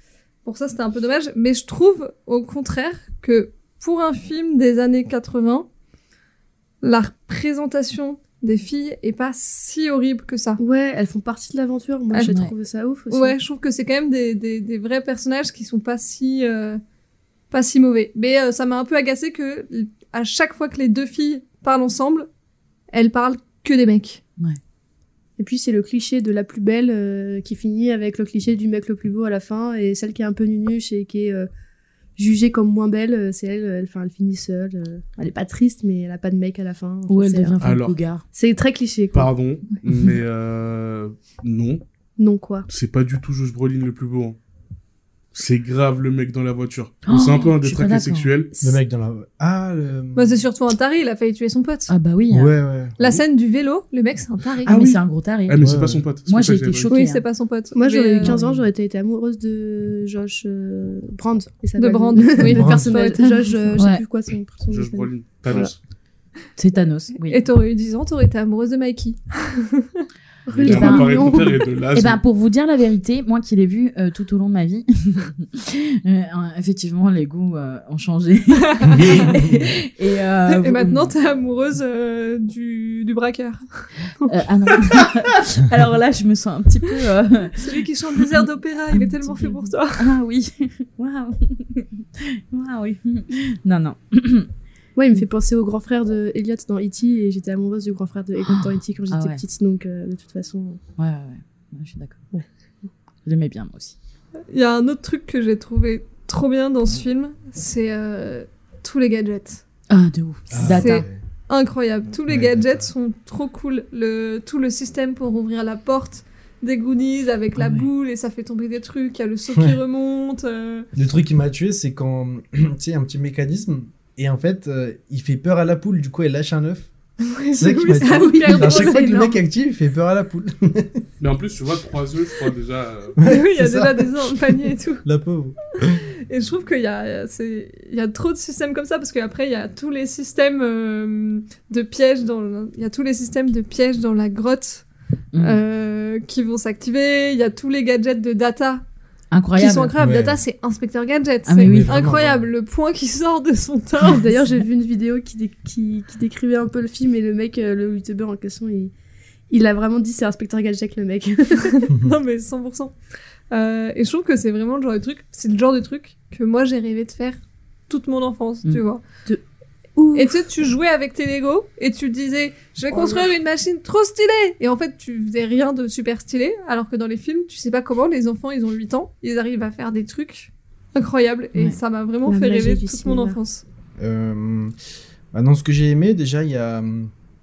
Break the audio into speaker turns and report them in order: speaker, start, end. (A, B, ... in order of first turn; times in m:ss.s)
0:00.4-0:05.7 A
0:06.8-0:10.6 A
0:10.6-0:13.4 B
0:12.1-0:12.4 A
0:12.2-0:12.5 C
0:13.1-0:16.8 A
0:17.5-0:22.3 A
0:22.9-0:24.2 A
0:25.4-0:31.5 B
0:32.2-0:37.6 B
0:37.1-0:38.2 C
0:37.6-0:37.9 D
0:38.3-0:39.3 B
0:39.1-0:41.8 D
0:42.2-0:42.7 B
0:42.7-0:44.4 D
0:45.3-0:48.5 D
0:47.0-0:48.3 C
0:48.6-0:50.4 E
0:50.2-0:51.9 A
0:51.9-0:52.5 C
0:52.3-0:53.0 E
0:53.0-0:54.8 A
0:54.6-0:55.7 C
0:54.6-0:56.9 D
0:55.6-0:56.0 E
0:56.3-0:57.2 C
0:56.9-0:58.4 A
0:57.8-1:05.7 B
0:58.2-0:58.6 C
1:01.8-1:03.8 A
1:02.4-1:03.0 E
1:03.8-1:04.0 C
1:04.7-1:05.8 D
1:06.6-1:07.4 C
1:07.2-1:10.0 A
1:10.5-1:11.6 B
1:10.5-1:12.2 D
1:10.6-1:21.1 C
1:18.6-1:19.3 A
1:20.5-1:25.1 A
1:24.2-1:34.5 C
1:27.6-1:30.1 A
1:35.0-1:40.8 B
1:38.4-1:39.4 C
1:41.0-1:42.3 C
1:43.2-1:44.0 C
1:44.5-1:49.6 A
1:49.9-1:51.1 C
1:50.5-1:51.2 E
1:50.6-2:00.9 A
1:52.3-1:52.9 E
1:57.6-1:57.9 C
2:01.0-2:06.9 E
2:07.2-2:09.3 A
2:07.5-2:11.0 E
2:08.0-2:09.3 B
2:11.2-2:13.2 D
2:13.2-2:15.0 A
2:13.2-2:16.0 E
2:16.3-2:24.9 A
2:25.3-2:25.6 C
2:25.4-2:28.8 A
2:29.3-2:29.9 C
2:29.6-2:34.3 A
2:30.0-2:30.4 E
2:31.5-2:32.0 C
2:31.6-2:32.4 E
2:34.1-2:38.9 B
2:39.5-2:41.8 B
2:41.6-2:42.9 A
2:43.5-2:49.0 A
2:50.0-2:50.5 B
2:50.2-3:03.6 A
2:52.9-2:53.3 B
3:02.3-3:03.4 B
3:04.0-3:04.7 E
3:05.3-3:07.1 E